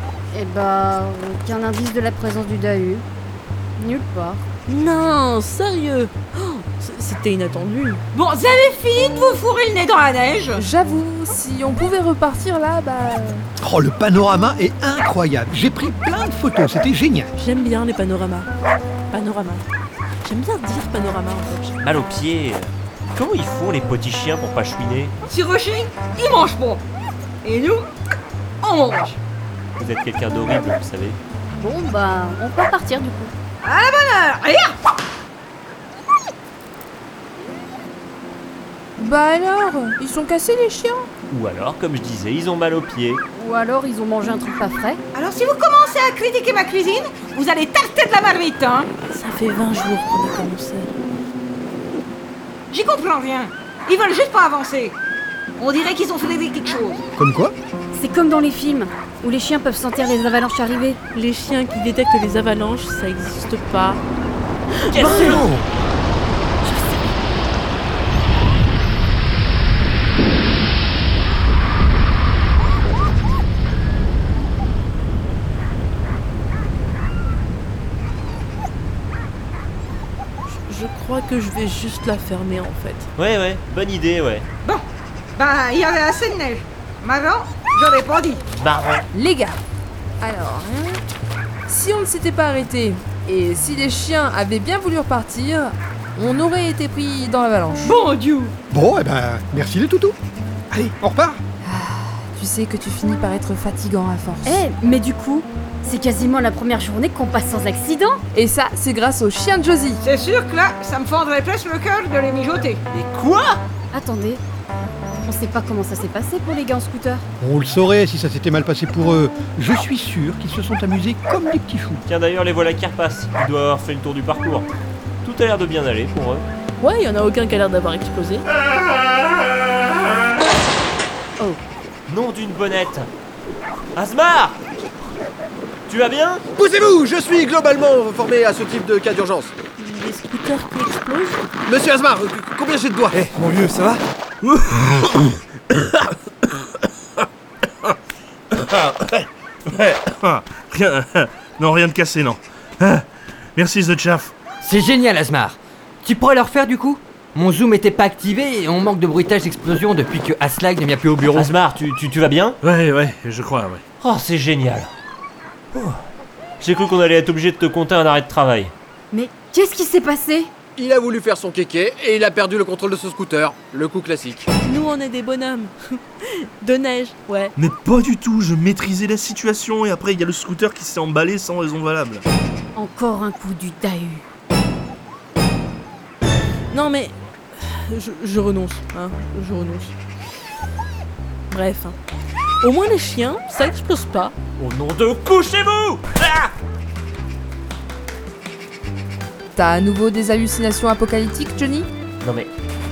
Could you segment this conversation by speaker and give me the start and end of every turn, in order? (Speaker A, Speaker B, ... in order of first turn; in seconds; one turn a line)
Speaker A: 0.3-3.0
Speaker A: 3.8-4.4
Speaker B: 4.7-8.0
Speaker C: 8.1-10.6
Speaker D: 10.5-13.4
Speaker E: 13.6-17.3
Speaker B: 17.4-18.5
Speaker B: 19.1-19.7
Speaker B: 20.2-21.7
Speaker F: 21.8-25.1
Speaker C: 25.3-26.8
Speaker C: 27.4-27.9
Speaker C: 28.6-29.2
Speaker F: 29.8-31.2
Speaker A: 31.6-33.3
Speaker C: 33.6-34.8
Speaker D: 39.0-41.0
Speaker F: 41.3-43.2
Speaker A: 43.3-45.0
Speaker C: 45.1-48.9
Speaker B: 49.1-50.9
Speaker C: 52.7-55.0
Speaker C: 55.6-57.0
Speaker E: 57.1-57.5
Speaker A: 57.9-61.0
Speaker B: 61.1-64.0
Speaker B: 64.9-65.5
Speaker F: 64.9-65.5
Speaker E: 65.0-65.7
Speaker B: 66.6-67.0
Speaker B: 80.5-83.1
Speaker F: 83.2-84.5
Speaker C: 85.3-88.4
Speaker F: 88.5-89.1
Speaker D: 89.1-89.6
Speaker D: 90.2-91.0
Speaker D: 91.7-97.9
Speaker C: 97.8-98.5
Speaker E: 98.7-100.2
Speaker E: 100.7-101.4
Speaker D: 101.6-104.6
Speaker A: 104.4-108.2
Speaker D: 108.3-110.0
Speaker C: 110.0-112.8
Speaker F: 112.9-113.6
Speaker A: 113.9-114.4
Speaker A: 115.2-117.2
Speaker E: 117.4-122.0
Speaker F: 122.1-124.7
Speaker F: 125.2-126.4
Speaker B: 126.8-128.4
Speaker F: 132.1-133.1
Speaker F: 133.9-134.6
Speaker F: 135.9-136.4
Speaker G: 136.5-139.5
Speaker B: 139.8-141.4
Speaker G: 141.7-143.9
Speaker H: 144.4-145.3
Speaker H: 148.6-153.0
Speaker H: 153.6-154.5
Speaker I: 154.6-161.5
Speaker F: 161.3-162.6
Speaker H: 162.6-163.8
Speaker F: 164.0-164.9
Speaker F: 165.7-166.0
Speaker F: 166.6-168.7
Speaker A: 169.1-170.5
Speaker G: 170.7-174.5
Speaker B: 174.6-177.5
Speaker H: 177.6-182.2
Speaker A: 182.7-184.2
Speaker B: 186.7-189.9
Speaker B: 191.5-192.0
Speaker B: 192.6-194.3
Speaker F: 194.6-196.5
Speaker D: 199.6-201.9
Speaker F: 202.2-202.5